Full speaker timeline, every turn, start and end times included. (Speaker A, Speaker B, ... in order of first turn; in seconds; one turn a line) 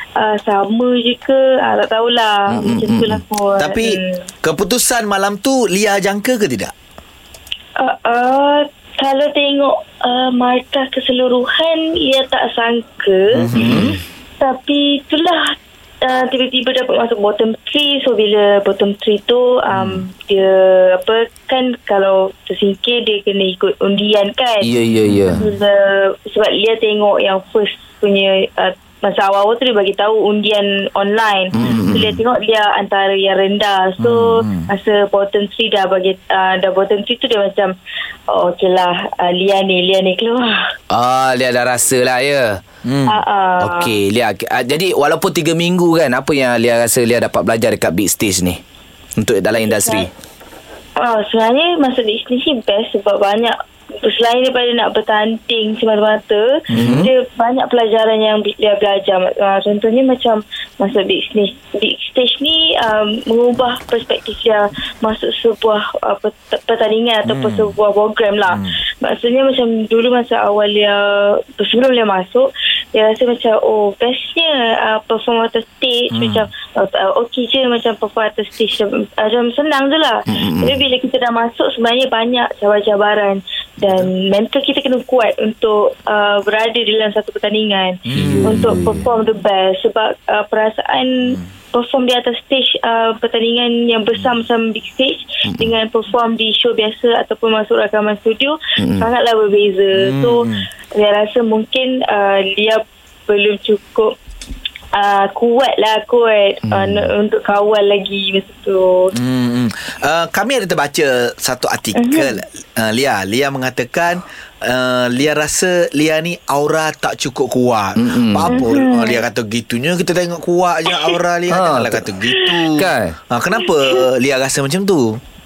Speaker A: 0.2-4.2
Speaker B: 2.5-3.2
Speaker C: 3.6-6.7
Speaker A: 7.8-13.5
Speaker C: 13.3-14.0
Speaker A: 14.4-24.7
Speaker C: 19.7-20.0
Speaker B: 24.6-25.4
Speaker C: 25.1-25.4
Speaker A: 25.4-37.7
Speaker B: 31.6-32.2
Speaker C: 31.6-32.0
Speaker C: 34.0-34.7
Speaker A: 38.3-40.7
Speaker B: 40.9-42.6
Speaker C: 42.9-43.2
Speaker A: 43.1-44.0
Speaker B: 43.6-48.6
Speaker B: 49.2-50.1
Speaker A: 49.6-50.1
Speaker A: 51.0-104.1
Speaker C: 56.7-57.1
Speaker B: 56.8-57.1
Speaker C: 67.3-67.7
Speaker C: 68.5-68.8
Speaker C: 76.1-76.5
Speaker B: 80.3-80.8
Speaker C: 88.1-88.8
Speaker B: 88.2-89.0
Speaker B: 98.8-99.1
Speaker C: 99.9-100.7
Speaker A: 104.9-109.1
Speaker B: 106.7-107.0
Speaker C: 109.1-125.2
Speaker A: 112.0-112.4
Speaker B: 118.0-118.6
Speaker A: 118.5-119.2
Speaker B: 121.5-122.1
Speaker B: 122.8-123.2
Speaker A: 123.7-124.0